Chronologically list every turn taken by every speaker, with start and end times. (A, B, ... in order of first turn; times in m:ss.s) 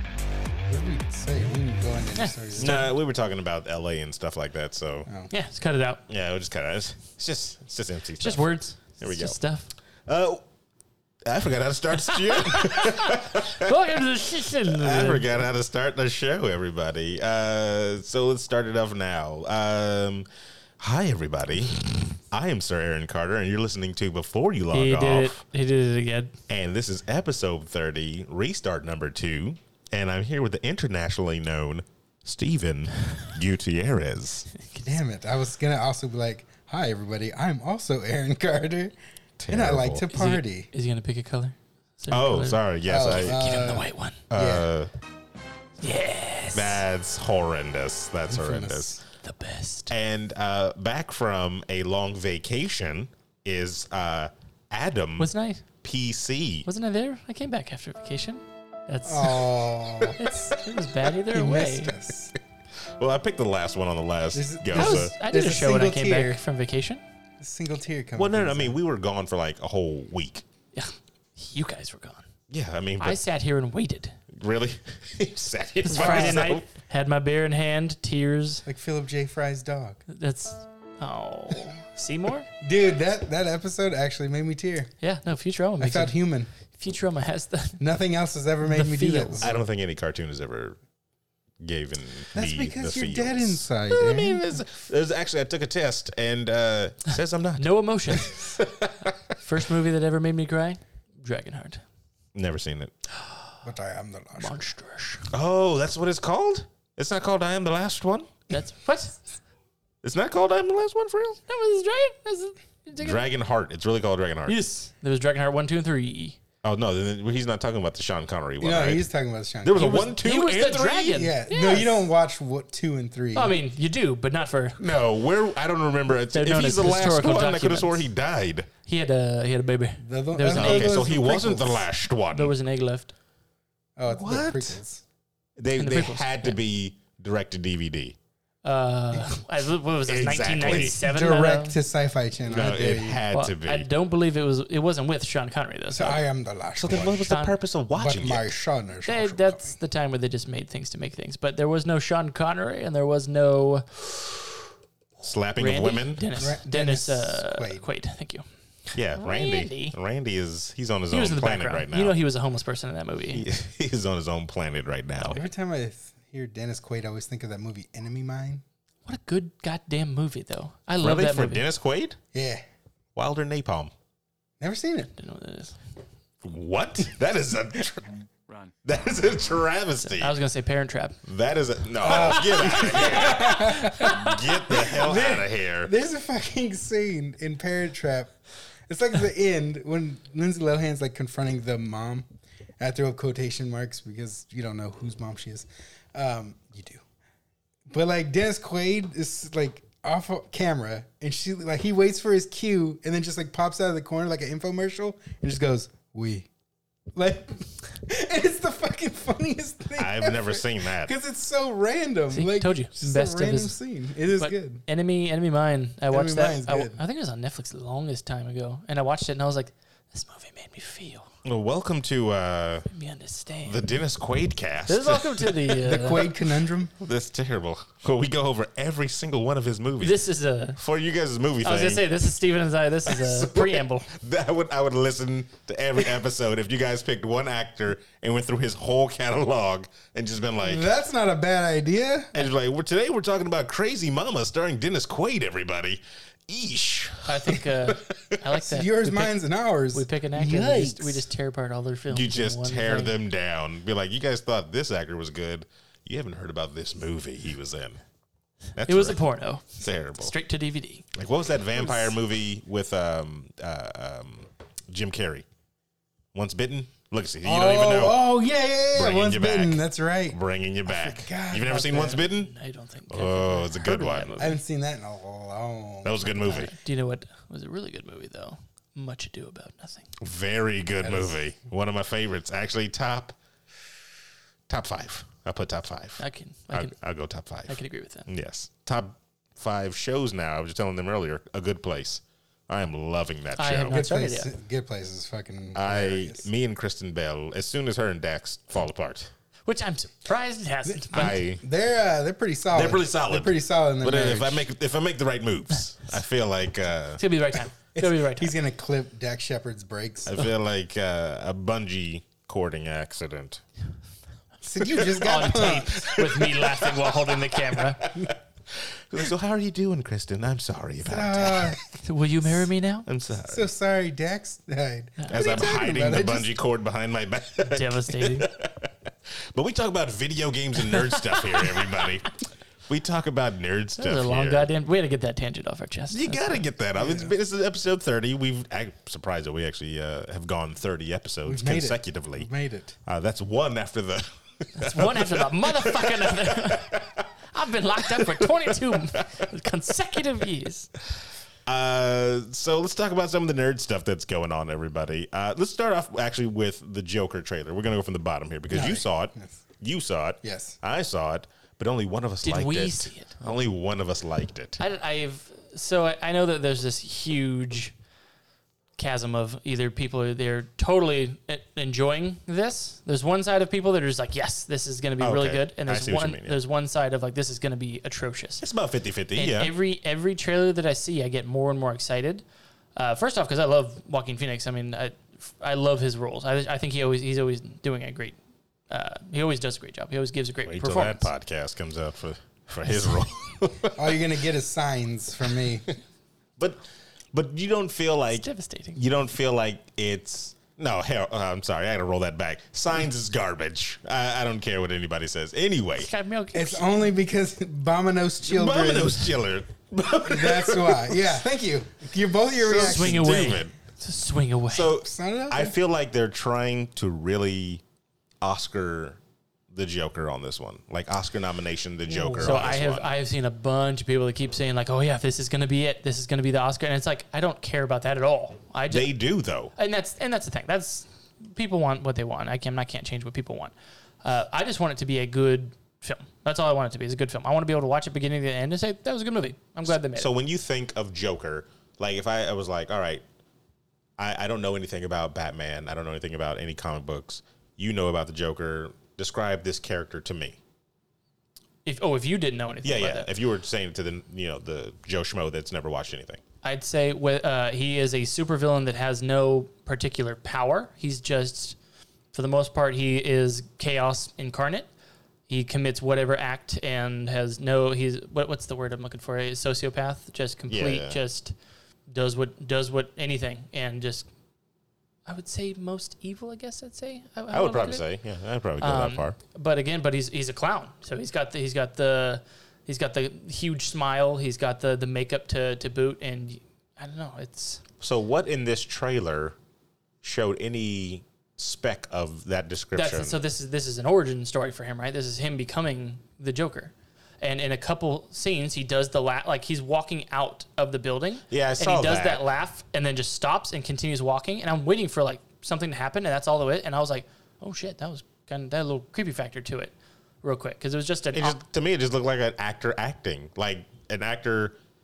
0:00.7-0:02.8 A
0:02.2-0:02.9 B
0:02.6-0:05.1 C
0:05.3-0:06.0 B
0:06.1-0:09.4 C
0:08.2-0:09.7 B
0:10.0-0:10.4 C
0:11.2-0:13.7 C
0:12.1-0:15.3 B
0:14.6-0:20.3 C
0:20.8-0:25.4 C
0:24.7-0:26.3 B
0:26.5-0:34.5 C
0:34.8-0:38.9 A
0:39.4-0:40.1 C
0:39.5-0:40.7 A
0:40.1-0:44.2 B
0:42.1-0:43.4 C
0:42.8-0:44.7 A
0:44.3-0:44.9 C
0:45.8-0:46.8 B
0:46.5-0:49.0 C
0:48.3-0:49.0 A
0:49.2-0:49.9 B
0:49.9-0:55.3 C
0:55.2-0:55.6 B
0:55.8-0:56.7 C
0:56.6-1:01.9 B
0:59.0-1:00.2 A
1:01.3-1:02.3 A
1:03.0-1:05.1 C
1:04.3-1:06.4 A
1:04.7-1:07.0 B
1:07.4-1:08.8 A
1:08.2-1:10.4 C
1:10.7-1:12.2 B
1:12.5-1:13.2 C
1:13.0-1:14.2 B
1:14.3-1:16.6 C
1:15.8-1:18.6 B
1:15.9-1:16.5 A
1:18.6-1:20.0 A
1:20.1-1:22.5 B
1:22.6-1:24.9 A
1:25.0-1:27.8 B
1:25.8-1:26.5 A
1:27.8-1:29.6 A
1:28.6-1:29.5 B
1:29.4-1:30.8 C
1:31.6-1:39.1 C
1:32.3-1:34.6 A
1:37.6-1:38.4 B
1:39.4-1:41.8 B
1:42.3-1:42.9 C
1:43.6-1:44.7 A
1:44.4-1:45.3 B
1:45.3-1:48.3 C
1:48.5-1:49.2 B
1:50.0-1:51.4 C
1:51.5-1:53.2 B
1:53.0-1:54.6 C
1:54.5-1:56.4 B
1:56.6-1:59.0 C
1:58.6-2:00.1 A
1:59.6-2:01.2 C
1:59.8-2:02.0 B
2:01.1-2:03.6 A
2:03.3-2:04.8 B
2:04.8-2:08.7 C
2:06.3-2:08.0 B
2:08.8-2:11.0 B
2:10.0-2:11.9 A
2:10.5-2:12.5 C
2:12.3-2:13.1 B
2:14.0-2:15.0 A
2:14.1-2:14.8 C
2:15.6-2:18.2 C
2:15.8-2:16.5 B
2:18.6-2:21.8 B
2:20.0-2:21.0 C
2:20.6-2:23.2 A
2:22.4-2:23.9 C
2:23.3-2:26.2 B
2:25.9-2:27.3 A
2:26.8-2:28.5 C
2:27.2-2:27.5 B
2:27.9-2:29.8 A
2:29.0-2:33.9 B
2:35.2-2:36.3 C
2:35.6-2:38.4 B
2:36.4-2:37.8 A
2:38.9-2:42.2 C
2:39.2-2:39.9 B
2:41.1-2:43.4 B
2:43.3-2:45.4 C
2:45.3-2:48.6 A
2:49.0-2:51.6 B
2:51.0-2:52.2 C
2:52.3-2:52.6 A
2:53.1-2:53.9 C
2:54.6-2:55.1 A
2:55.1-2:55.8 B
2:56.4-2:58.1 C
2:58.8-3:00.4 C
3:00.0-3:01.2 B
3:01.2-3:05.9 C
3:02.0-3:08.3 A
3:02.5-3:04.3 B
3:08.9-3:17.0 A
3:17.9-3:26.5 A
3:27.1-3:34.8 A
3:30.0-3:31.1 C
3:32.3-3:33.7 B
3:34.3-3:41.3 B
3:36.1-3:37.0 A
3:41.4-3:42.9 C
3:42.9-3:43.8 B
3:43.6-3:45.7 C
3:44.9-3:46.3 B
3:45.8-3:46.9 A
3:47.0-3:50.2 C
3:50.0-3:50.8 B
3:50.8-3:52.0 C
3:51.6-3:54.1 B
3:53.0-4:00.9 C
4:00.6-4:02.3 A
4:02.3-4:08.4 C
4:07.2-4:09.3 B
4:08.6-4:11.2 A
4:09.9-4:13.1 B
4:12.1-4:18.0 C
4:18.8-4:20.3 C
4:18.8-4:21.0 B
4:21.1-4:25.4 C
4:21.8-4:22.1 A
4:26.3-4:28.3 C
4:27.4-4:32.2 A
4:28.9-4:32.5 C
4:31.7-4:34.6 B
4:33.1-4:34.3 C
4:34.4-4:36.3 A
4:36.0-4:36.7 C
4:36.3-4:40.1 B
4:40.2-4:43.3 C
4:41.0-4:41.4 A
4:44.7-4:54.0 C
4:46.2-4:46.9 B
4:47.7-4:48.3 B
4:53.6-4:54.5 B
4:53.9-4:56.5 A
4:55.7-4:59.3 C
4:59.6-5:01.4 B
5:01.1-5:01.6 C
5:01.1-5:04.6 A
5:02.7-5:07.2 C
5:07.2-5:08.5 B
5:07.9-5:10.4 A
5:10.2-5:13.6 C
5:14.6-5:16.2 A
5:14.8-5:21.8 C
5:15.1-5:18.1 B
5:21.0-5:21.8 A
5:21.9-5:23.0 B
5:23.0-5:23.7 C
5:23.4-5:26.6 A
5:25.3-5:28.9 C
5:27.6-5:28.5 B
5:29.5-5:34.7 C
5:30.9-5:31.8 B
5:34.0-5:36.6 B
5:36.1-5:42.5 C
5:37.0-5:37.3 A
5:41.4-5:43.0 A
5:43.0-5:47.2 C
5:44.8-5:50.9 B
5:48.2-5:49.3 C
5:51.6-6:04.8 C
5:58.7-5:59.5 A
6:00.4-6:00.8 A
6:02.4-6:03.3 B
6:04.8-6:07.9 B
6:09.0-6:18.6 B
6:15.2-6:16.6 C
6:18.6-6:19.7 C
6:19.3-6:22.4 B
6:23.0-6:28.4 B
6:28.9-6:31.3 B
6:30.6-6:34.2 C
6:33.9-6:35.9 A
6:37.3-6:46.1 C
6:38.4-6:39.0 B
6:45.9-6:47.0 B
6:46.5-6:49.4 A
6:48.4-6:51.3 C
6:50.2-6:53.5 A
6:52.6-6:53.7 C
6:52.8-6:54.9 B
6:54.7-6:57.8 C
6:55.0-6:55.7 A
6:58.4-6:59.2 C
6:59.7-7:03.1 C
7:02.1-7:02.8 A
7:02.4-7:09.1 B
7:08.9-7:09.7 C
7:09.8-7:20.3 B
7:20.1-7:23.2 C
7:24.2-7:30.6 C
7:31.8-7:33.3 B
7:32.8-7:36.4 C
7:36.6-7:41.8 B
7:42.3-7:44.9 B
7:45.5-7:51.5 B
7:50.7-7:51.2 C
7:52.1-7:54.3 B
7:55.2-7:58.0 B
7:57.5-7:59.4 C
7:58.8-8:07.8 B
8:08.0-8:09.5 C
8:10.2-8:13.4 C
8:12.9-8:31.6 B
8:21.5-8:22.4 C
8:31.3-8:34.8 C